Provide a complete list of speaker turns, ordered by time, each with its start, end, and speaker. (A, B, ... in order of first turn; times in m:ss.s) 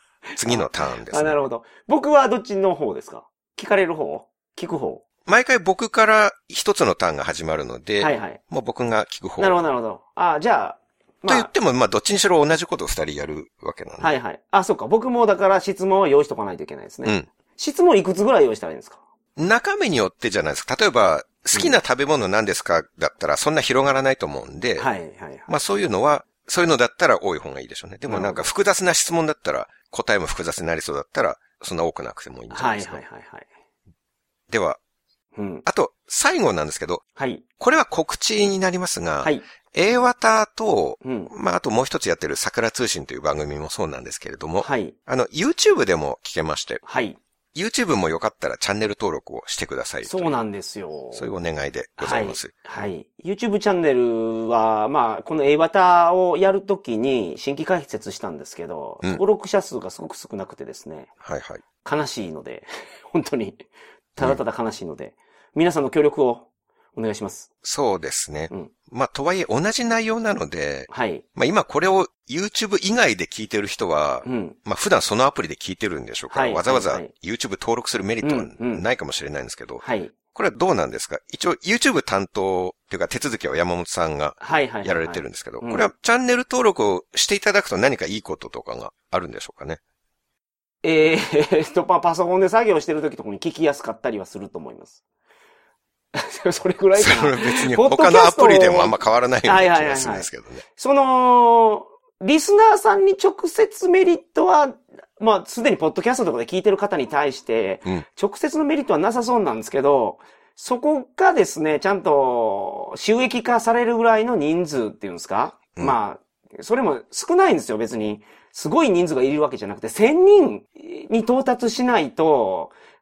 0:00.4-0:01.4 A
0:00.4-0:05.0 B
0:05.2-0:09.6 A
0:08.0-0:08.4 B
0:09.4-0:11.5 B
0:11.2-0:14.1 A
0:14.0-0:19.0 B
0:19.4-0:24.9 A
0:21.5-0:21.8 B
0:24.8-0:25.5 B
0:25.5-0:33.0 A
0:28.1-0:28.4 B
0:32.5-0:33.5 B
0:34.5-0:34.8 A
0:35.4-0:35.6 B
0:35.6-0:37.0 A
0:37.2-0:37.4 B
0:37.6-0:46.8 A
0:41.0-0:41.3 B
0:44.6-0:44.9 B
0:46.8-0:47.2 B
0:47.5-0:50.3 A
0:50.0-0:51.3 B
0:51.1-0:52.5 A
0:52.0-1:01.1 B
1:01.2-1:01.6 A
1:01.8-1:03.6 B
1:04.2-1:07.5 B
1:07.6-1:29.8 A
1:10.9-1:11.2 B
1:14.2-1:14.6 B
1:16.3-1:17.1 B
1:18.2-1:18.8 B
1:19.8-1:20.2 B
1:24.4-1:25.9 B
1:30.8-1:35.0 B
1:36.1-2:02.7 B
1:36.9-1:40.6 A